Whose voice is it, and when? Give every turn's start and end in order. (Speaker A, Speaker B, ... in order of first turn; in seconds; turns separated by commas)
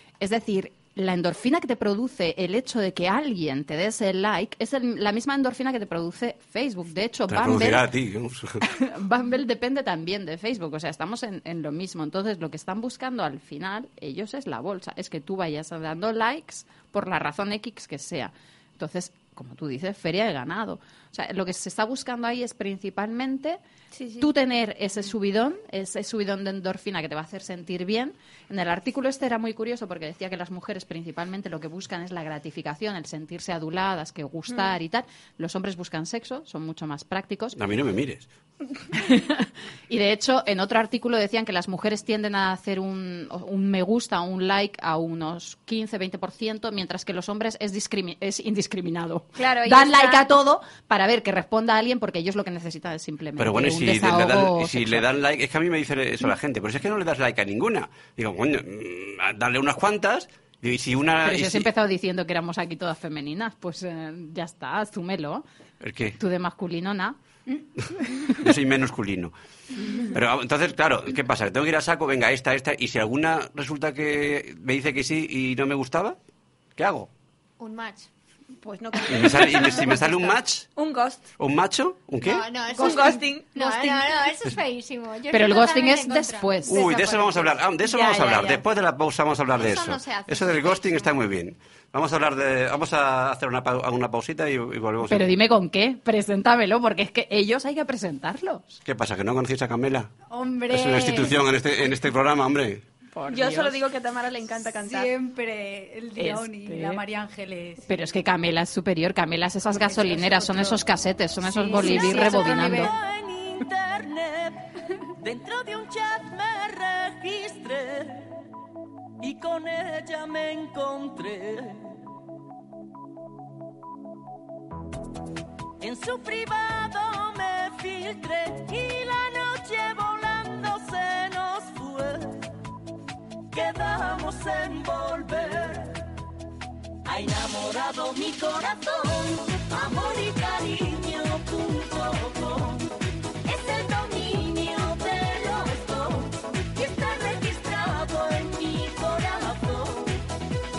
Speaker A: 0.2-7.9, Speaker B: 7.3-8.6, Speaker A: 8.6-23.6, Speaker C: 23.9-24.3, Speaker A: 24.2-37.6, Speaker B: 37.5-38.3, Speaker A: 38.9-55.0, Speaker C: 49.4-50.3, Speaker B: 53.4-61.7, Speaker A: 61.2-65.4, Speaker B: 65.8-66.2, Speaker A: 66.2-67.2, Speaker B: 68.3-69.3, Speaker B: 70.1-76.2, Speaker B: 76.8-77.1, Speaker D: 77.6-78.1, Speaker C: 78.6-81.3, Speaker B: 79.1-80.7, Speaker B: 81.4-82.5, Speaker D: 82.2-86.6, Speaker C: 82.7-84.2, Speaker E: 82.7-83.2, Speaker A: 85.3-87.2, Speaker B: 86.7-95.3, Speaker C: 87.8-88.6, Speaker D: 89.5-91.1, Speaker A: 95.0-98.7, Speaker B: 98.8-100.1, Speaker E: 100.3-101.4, Speaker B: 100.7-102.8, Speaker A: 103.1-103.8, Speaker C: 103.3-105.1, Speaker E: 104.8-107.8, Speaker A: 106.2-107.0, Speaker A: 107.9-112.9, Speaker E: 109.7-110.8, Speaker E: 111.4-112.9, Speaker F: 111.8-114.7, Speaker F: 115.2-118.3, Speaker F: 119.2-121.9, Speaker F: 125.8-132.4, Speaker F: 133.5-136.0, Speaker F: 137.0-142.9, Speaker F: 143.4-150.2